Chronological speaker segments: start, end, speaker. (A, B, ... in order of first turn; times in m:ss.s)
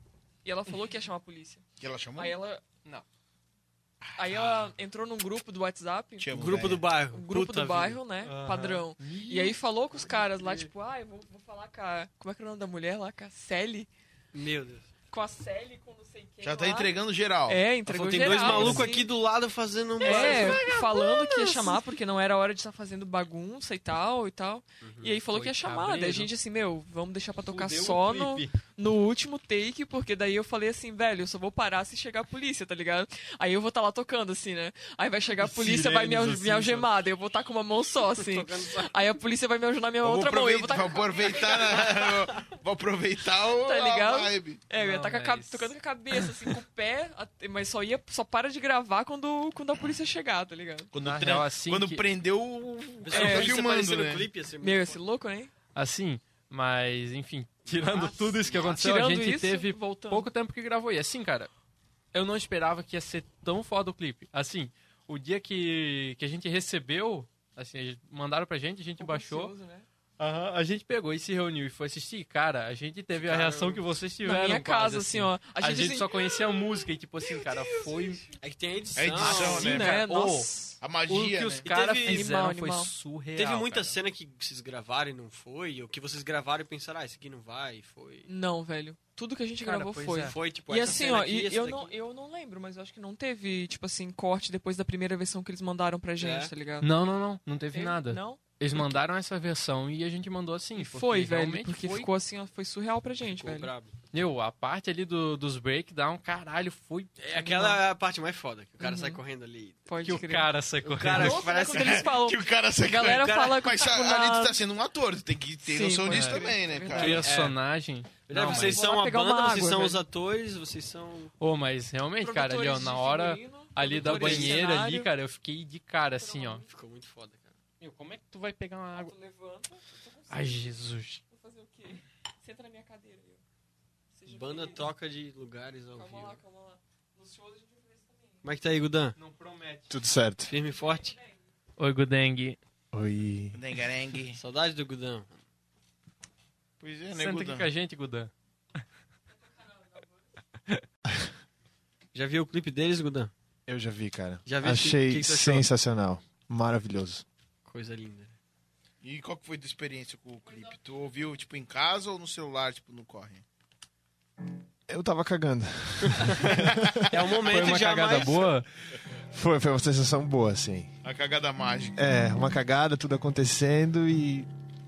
0:00.4-0:01.6 A
0:01.8-0:02.4 B
0:02.2-0:02.6 A
0:04.0-0:04.7 B
0:04.2-0:06.3 A
0:06.2-0:06.9 B
0:06.3-0:08.0 C
0:07.1-0:13.9 A
0:08.2-0:10.7 D
0:14.3-0:14.9 C
0:15.1-0:17.0 A
0:16.4-0:17.6 B
0:17.5-0:19.1 A
0:17.8-0:21.7 C
0:18.3-0:18.9 D
0:20.0-0:42.1 A
0:20.0-0:20.9 D
0:24.8-0:25.2 C
0:25.3-0:26.3 D
0:27.5-0:28.6 D
0:35.4-0:36.9 D
0:38.1-0:38.9 C
0:40.0-0:44.6 B
0:41.5-0:42.2 C
0:43.5-0:50.9 A
0:44.7-0:45.7 D
0:50.9-0:54.3 B
0:51.0-0:52.0 D
0:53.0-0:55.0 C
0:53.1-0:53.6 A
0:54.6-0:55.5 A
0:55.7-1:01.5 D
0:57.8-1:00.3 A
1:02.1-1:09.5 D
1:09.0-1:09.8 A
1:10.2-1:18.2 D
1:13.2-1:13.8 C
1:14.2-1:18.3 A
1:18.4-1:19.8 C
1:19.0-1:20.0 B
1:19.1-1:20.5 D
1:19.3-1:20.8 A
1:20.8-1:21.7 B
1:21.0-1:24.0 D
1:21.6-1:22.2 C
1:22.0-1:22.9 A
1:23.3-1:28.3 C
1:28.2-1:36.9 A
1:29.6-1:30.3 D
1:30.2-1:31.9 C
1:36.2-1:36.5 C
1:36.8-1:42.1 D
1:37.7-1:39.0 A
1:40.8-1:43.7 A
1:43.3-1:44.0 C
1:44.1-1:47.8 D
1:47.2-1:49.8 C
1:48.8-1:49.2 A
1:49.8-1:50.5 A
1:50.0-1:51.4 D
1:50.8-1:52.1 C
1:51.1-1:54.6 A
1:51.6-1:57.3 B
1:55.6-1:57.3 A
1:56.1-1:58.8 D
1:57.1-1:57.6 C
1:58.3-2:01.3 C
1:58.3-2:00.0 A
2:01.4-2:06.6 D
2:02.2-2:05.1 A
2:04.0-2:04.7 C
2:06.2-2:06.7 A
2:06.6-2:07.6 C
2:07.8-2:09.1 D
2:08.9-2:10.7 A
2:10.3-2:11.2 D
2:11.3-2:13.4 A
2:14.1-2:14.9 A
2:14.2-2:16.4 C
2:15.9-2:18.4 A
2:18.4-2:19.1 C
2:19.2-2:19.9 D
2:19.9-2:20.5 E
2:20.5-2:21.2 C
2:20.6-2:21.4 A
2:21.8-2:22.6 D
2:22.9-2:23.6 E
2:23.5-2:24.4 B
2:24.3-2:25.4 C
2:26.8-2:27.7 B
2:27.1-2:28.3 D
2:29.3-2:30.3 A
2:32.1-2:33.3 C
2:33.7-2:37.2 E
2:34.4-2:35.7 C
2:37.6-2:38.4 C
2:39.0-2:43.4 B
2:44.9-2:47.1 E
2:46.7-2:46.9 B
2:47.1-2:48.5 C
2:47.4-2:48.7 D
2:49.3-2:50.9 E
2:51.0-2:52.0 B
2:52.0-2:54.5 E